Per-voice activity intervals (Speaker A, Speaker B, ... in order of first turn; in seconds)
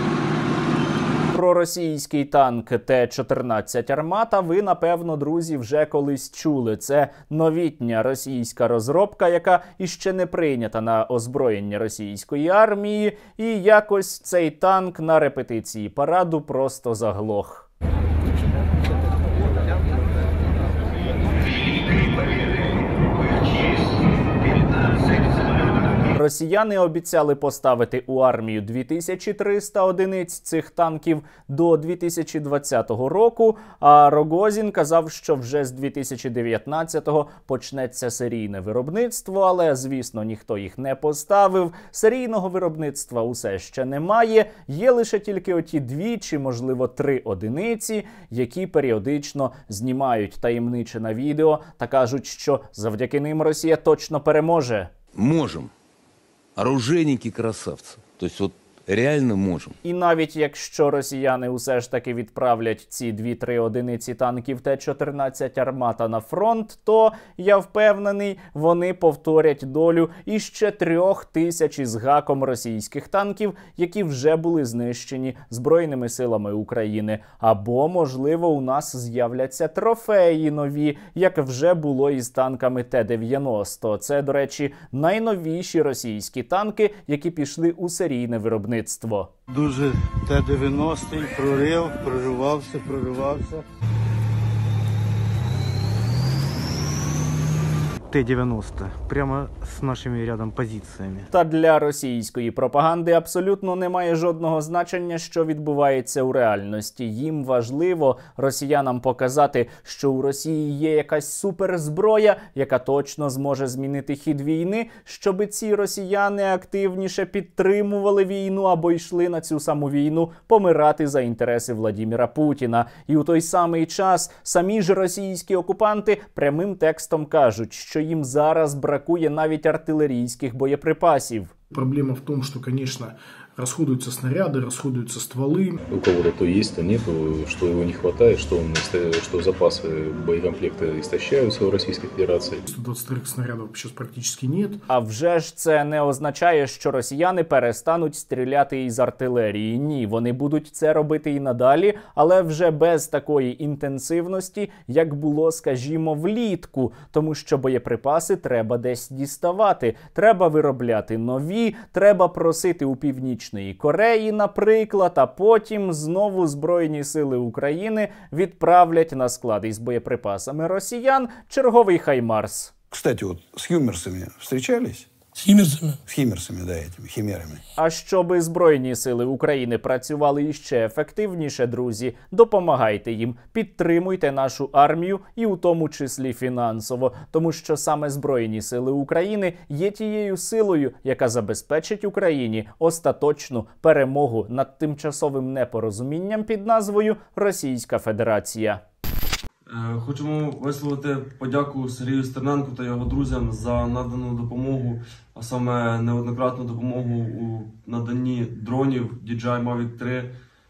Speaker A: 1.3-17.7, 26.1-54.9, 59.8-89.3, 101.3-131.5, 144.9-172.7, 177.8-198.8
Speaker B: 55.1-55.7, 56.6-59.8
Speaker C: 89.5-93.6
Speaker D: 98.1-101.3
Speaker E: 131.7-135.8, 142.7-144.8
Speaker F: 135.9-142.7, 175.4-176.0
Speaker G: 172.9-175.1, 176.1-177.6
Speaker H: 199.7-210.4